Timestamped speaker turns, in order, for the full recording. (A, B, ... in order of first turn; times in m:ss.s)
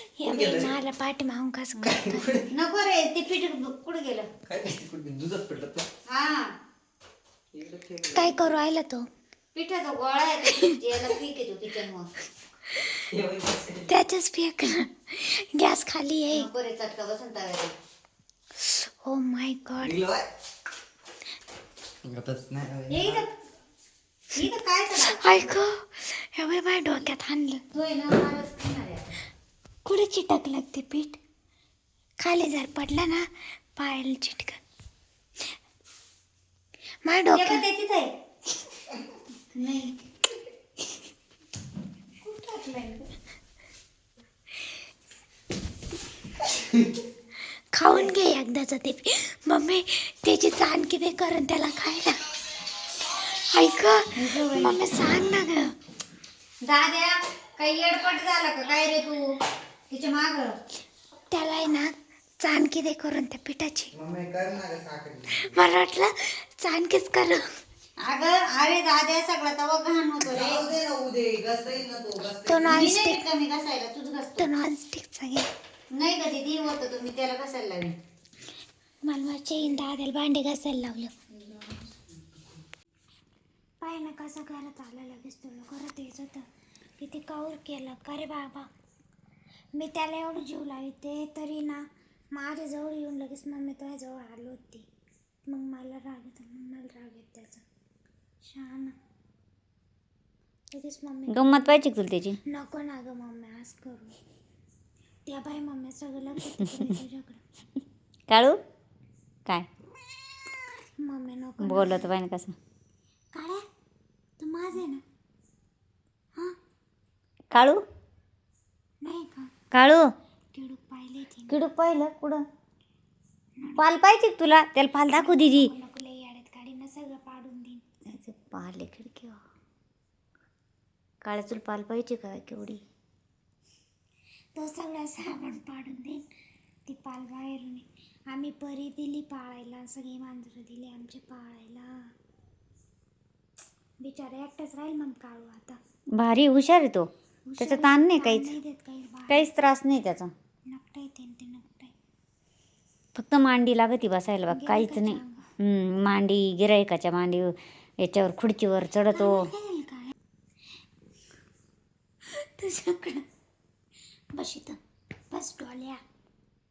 0:00.2-0:02.3 A
0:00.2-0:00.7 B
0:01.8-0:02.5 B
0:02.5-0:04.3 C
0:04.4-0:05.9 B
0:06.0-0:06.5 C
0:07.5-0:08.4 B
0:08.1-0:09.1 A
0:09.5-0:12.1 C
0:12.7-0:13.0 A
0:13.0-0:13.9 B
0:13.9-0:16.5 A
0:16.3-0:17.7 C
0:18.6-0:20.0 A
0:19.8-0:20.3 B
0:22.0-0:23.2 B
0:22.9-0:23.3 C
0:24.3-0:25.6 C
0:25.0-0:27.6 A
0:27.7-0:29.2 C
0:29.8-0:31.2 A
0:32.2-0:34.6 A
0:37.0-0:37.6 A
0:37.3-0:38.1 C
0:39.5-0:40.0 C
0:42.2-0:43.1 C
0:47.7-0:52.2 A
0:53.0-0:55.8 A
0:54.1-0:55.2 C
0:56.6-0:59.3 C
0:59.9-1:00.5 C
1:01.3-1:03.9 A
1:03.9-1:05.4 B
1:05.3-1:07.5 A
1:08.0-1:10.7 C
1:10.2-1:12.9 B
1:12.4-1:13.2 A
1:12.6-1:14.5 C
1:14.4-1:15.5 A
1:15.9-1:18.0 C
1:19.0-1:21.1 A
1:21.4-1:21.7 C
1:23.8-1:26.4 A
1:27.0-1:28.7 A
1:29.7-1:34.8 A
1:35.4-1:37.6 A
1:38.4-1:39.0 A
1:40.7-1:41.8 A
1:41.3-1:42.4 C
1:42.4-1:44.2 A
1:45.2-1:47.4 A
1:48.3-1:48.6 C
1:51.0-1:52.1 A
1:51.6-1:52.6 C
1:53.3-1:53.6 A
1:54.4-1:55.0 A
1:57.5-1:57.8 C
1:59.0-1:59.5 A
1:59.7-2:00.1 C
2:00.5-2:01.6 A
2:01.5-2:02.4 C
2:03.8-2:05.7 C
2:05.1-2:07.8 A
2:08.0-2:09.4 C
2:11.2-2:12.8 C
2:14.6-2:16.2 A
2:16.8-2:22.0 A
2:24.0-2:25.8 A
2:26.1-2:28.5 C
2:27.5-2:29.5 A
2:29.3-2:30.3 C
2:30.7-2:31.9 A
2:33.1-2:39.5 C
2:34.5-2:35.5 A
2:39.1-2:40.1 A
2:42.2-2:43.2 A
2:44.3-2:44.8 A
2:45.3-2:46.0 A